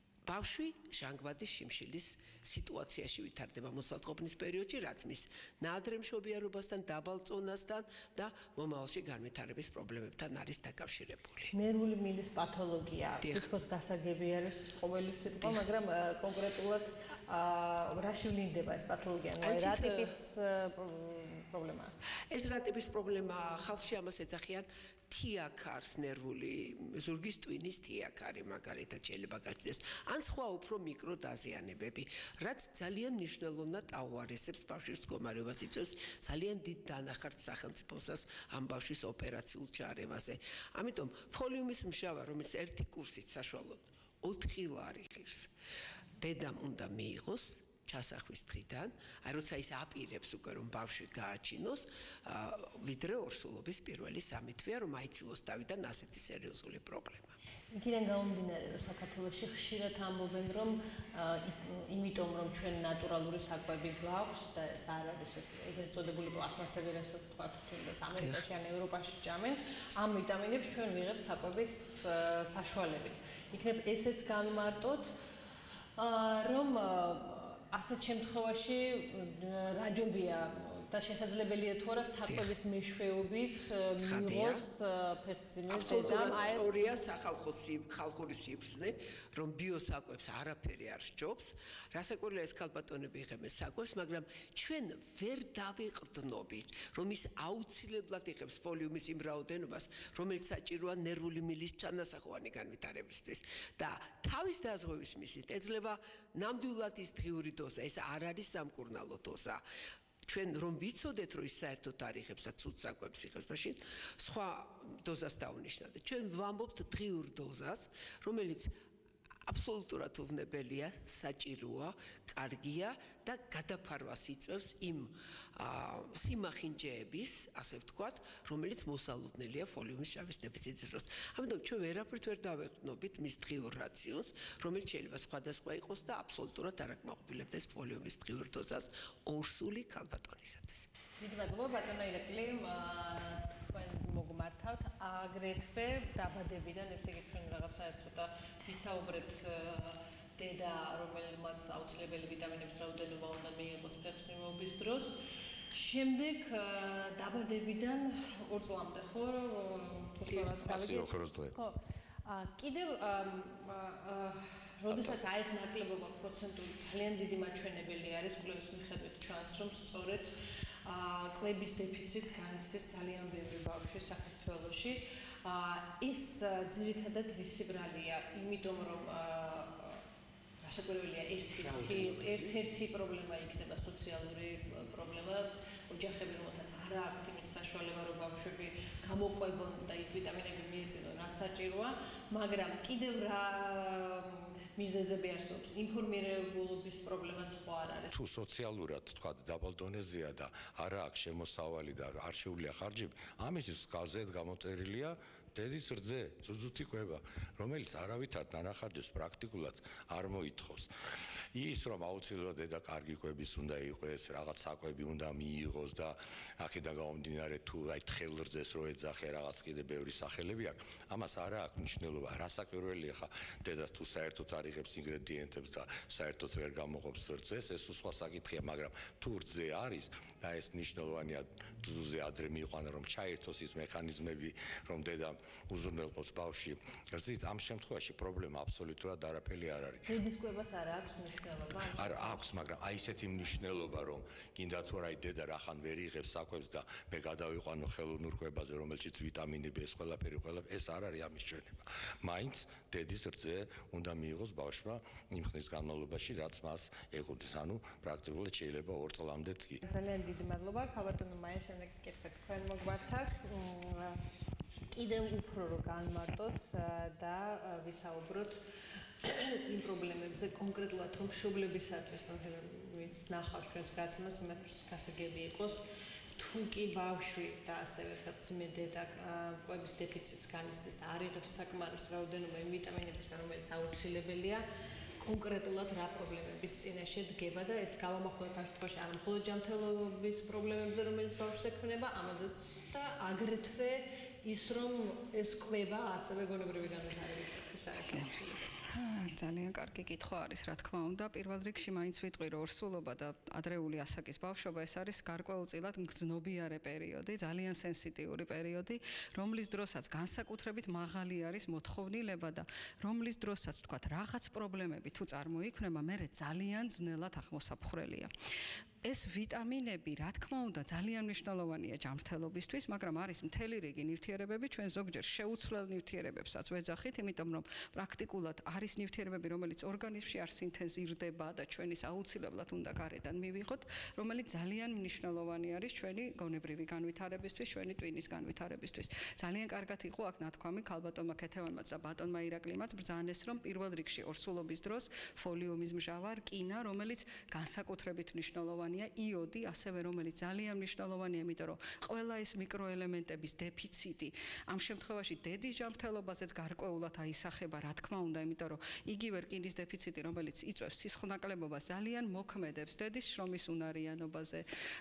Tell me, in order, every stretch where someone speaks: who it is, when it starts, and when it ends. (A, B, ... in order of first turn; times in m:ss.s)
0:00.3-0:11.5 A
0:11.5-0:21.9 B
0:13.2-0:13.5 A
0:19.4-0:20.1 A
0:22.3-0:45.5 A
0:46.2-0:57.4 A
0:57.7-1:15.1 B
1:16.0-1:26.8 B
1:24.0-1:24.6 A
1:25.7-1:49.6 A
1:50.2-1:58.7 A
1:59.5-2:20.9 A
2:21.2-2:35.2 B
2:35.7-3:00.0 B
2:40.5-2:41.6 C
2:44.9-2:45.2 C
3:00.6-3:18.1 B
3:01.6-3:02.6 A
3:18.1-4:00.1 C
4:00.1-4:02.4 B
4:01.9-4:19.8 C
4:19.8-4:24.2 B
4:24.9-4:28.6 B
4:29.2-4:35.8 B
4:36.4-4:44.6 B
4:45.2-4:58.7 B
4:58.8-5:18.3 D
5:19.0-6:04.6 D